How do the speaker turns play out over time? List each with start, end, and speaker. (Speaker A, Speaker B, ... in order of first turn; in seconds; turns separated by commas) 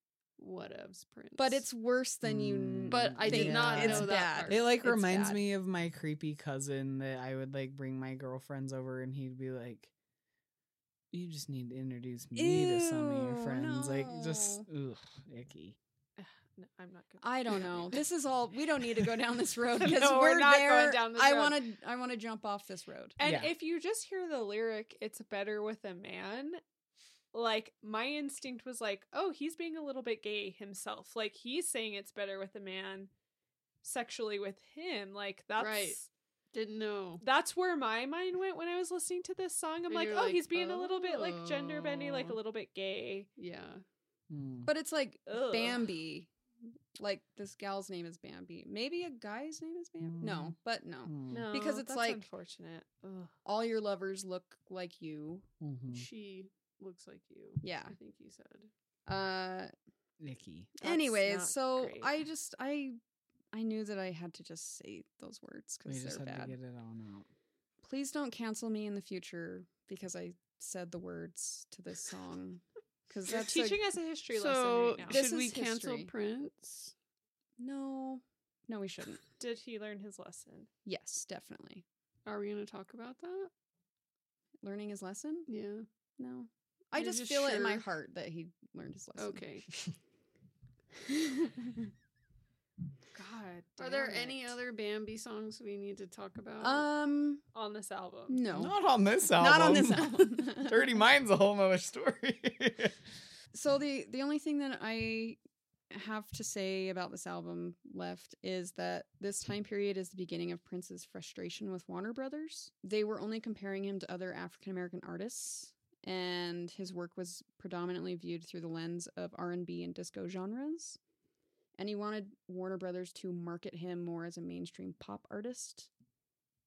Speaker A: 0.4-1.7, Speaker B: 1.4-5.4, Speaker C: 2.2-9.9, Speaker A: 2.9-4.7, Speaker C: 11.1-15.8, Speaker B: 12.3-14.7, Speaker D: 16.2-18.0, Speaker B: 17.2-23.1, Speaker D: 19.7-21.6, Speaker D: 23.2-26.6, Speaker C: 23.2-23.5, Speaker D: 27.3-33.1, Speaker D: 33.8-36.1, Speaker A: 35.6-36.0, Speaker A: 36.5-37.2, Speaker D: 37.2-43.3, Speaker A: 39.9-42.4, Speaker A: 43.4-43.8, Speaker C: 44.3-44.7, Speaker B: 44.6-46.3, Speaker D: 45.3-45.9, Speaker B: 47.0-52.2, Speaker C: 50.0-51.5, Speaker D: 51.3-53.3, Speaker B: 53.4-55.5, Speaker C: 55.6-56.1, Speaker A: 55.9-58.7, Speaker B: 57.6-57.9, Speaker B: 59.0-59.7, Speaker C: 60.2-60.8, Speaker B: 60.8-63.0, Speaker D: 60.8-62.1, Speaker B: 63.5-66.5, Speaker C: 65.8-67.3, Speaker B: 67.8-73.8, Speaker D: 73.3-75.2, Speaker A: 74.3-76.9, Speaker B: 75.1-76.1, Speaker B: 77.6-79.2, Speaker D: 79.4-80.7, Speaker B: 80.8-81.8, Speaker A: 82.2-83.5, Speaker B: 84.6-85.5, Speaker A: 85.5-85.8, Speaker B: 86.2-89.4, Speaker A: 86.9-87.9, Speaker A: 89.2-89.7, Speaker B: 91.0-91.9, Speaker D: 93.1-94.5, Speaker A: 93.8-96.8, Speaker B: 96.6-97.4, Speaker D: 97.5-98.4, Speaker B: 98.3-98.8, Speaker C: 98.5-103.0, Speaker B: 99.3-100.9, Speaker B: 103.5-105.4, Speaker B: 105.9-121.0, Speaker B: 121.8-125.9